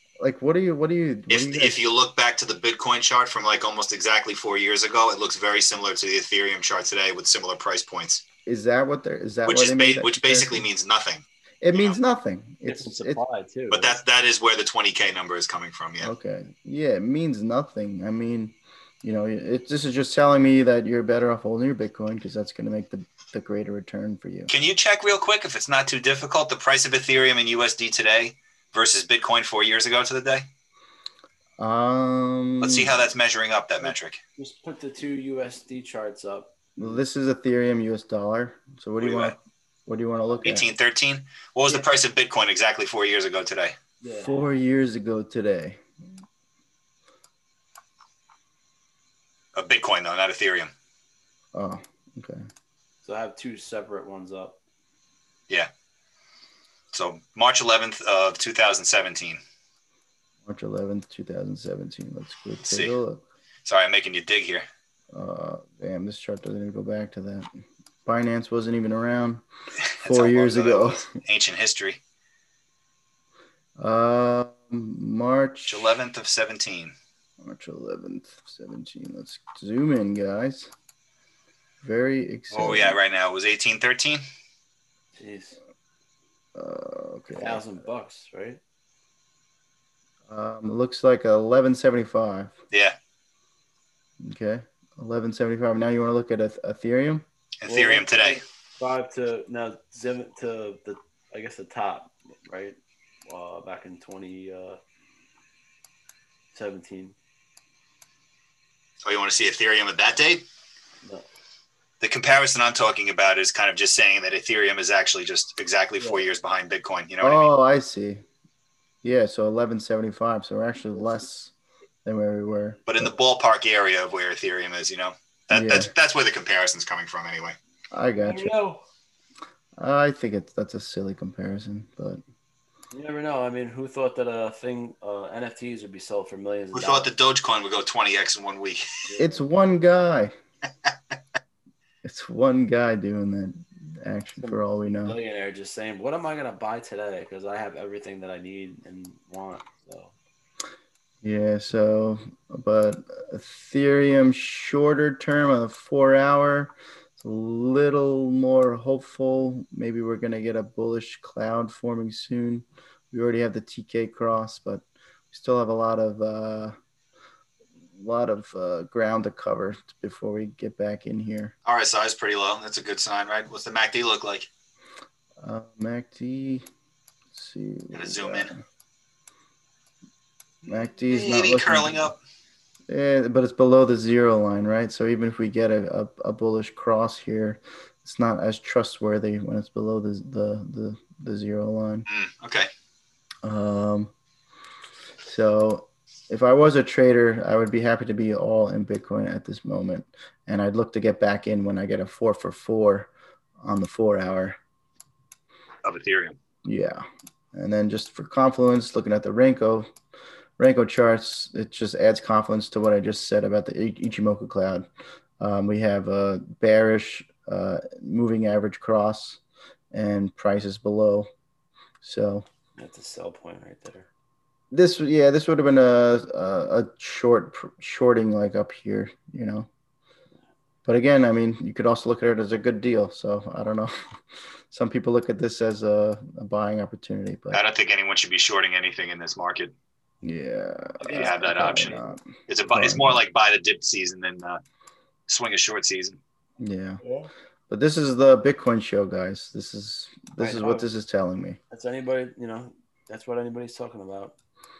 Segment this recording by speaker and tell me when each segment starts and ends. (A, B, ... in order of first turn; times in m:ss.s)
0:00.2-0:01.8 A
0:01.3-0:08.2 B
0:08.4-0:10.6 A
0:09.4-0:12.0 B
0:11.6-0:13.2 A
0:12.7-0:14.0 C
0:13.7-0:16.1 B
0:16.0-0:24.5 A
0:24.5-0:30.4 B
0:31.6-0:33.1 A
0:32.6-0:34.2 B
0:34.4-0:37.0 C
0:36.8-0:40.6 A
0:39.0-0:39.4 B
0:40.4-0:43.7 B
0:44.0-0:44.4 C
0:44.0-0:45.8 A
0:49.6-0:50.7 B
0:51.5-0:52.4 A
0:53.0-0:54.6 C
0:56.9-0:59.4 B
1:00.4-1:03.2 A
1:02.6-1:02.9 B
1:03.6-1:04.6 B
1:05.1-1:09.4 A
1:09.9-1:12.0 B
1:10.0-1:11.2 A
1:13.8-1:15.9 A
1:15.7-1:16.9 B
1:17.4-1:20.7 A
1:21.8-1:23.0 A
1:22.5-1:24.2 B
1:25.2-1:25.6 C
1:26.5-1:27.6 A
1:27.3-1:28.6 C
1:30.3-1:32.6 A
1:34.2-1:37.2 A
1:37.6-1:38.4 B
1:37.6-1:44.8 C
1:46.5-1:47.1 C
1:49.0-1:50.4 B
1:52.0-1:57.5 B
1:57.2-1:58.2 A
1:59.0-2:01.5 A
2:02.0-2:03.1 A
2:02.8-2:07.6 B
2:05.5-2:05.9 A
2:07.9-2:08.5 A
2:08.2-2:08.8 C
2:09.8-2:12.2 A
2:12.9-2:17.1 C
2:16.7-2:18.9 B
2:19.0-2:19.4 C
2:19.2-2:20.3 A
2:22.0-2:25.2 A
2:24.4-2:30.1 C
2:31.2-2:46.8 A
2:47.9-2:51.5 A
2:51.6-2:54.5 B
2:55.4-2:56.6 A
2:57.3-2:58.6 A
2:57.9-2:58.5 B
3:00.6-3:02.1 A
3:01.1-3:02.2 B
3:02.9-3:12.0 A
3:12.1-3:12.7 B
3:13.4-3:14.1 A
3:15.2-3:24.6 A
3:25.8-3:26.4 B
3:26.6-3:29.9 A
3:30.6-3:34.9 A
3:35.4-3:39.4 A
3:39.9-3:41.3 A
3:42.0-3:42.4 A
3:42.8-3:44.1 C
3:44.7-3:49.7 A
3:50.8-3:53.9 A
3:54.7-3:57.6 A
3:57.5-3:59.7 B
4:00.2-4:03.2 A
4:01.0-4:02.0 C
4:01.1-4:02.0 B
4:02.5-4:04.6 B
4:05.3-4:06.2 B
4:06.6-4:07.0 A
4:07.0-4:07.3 C
4:07.7-4:11.6 A
4:10.4-4:10.9 C
4:11.7-4:14.3 C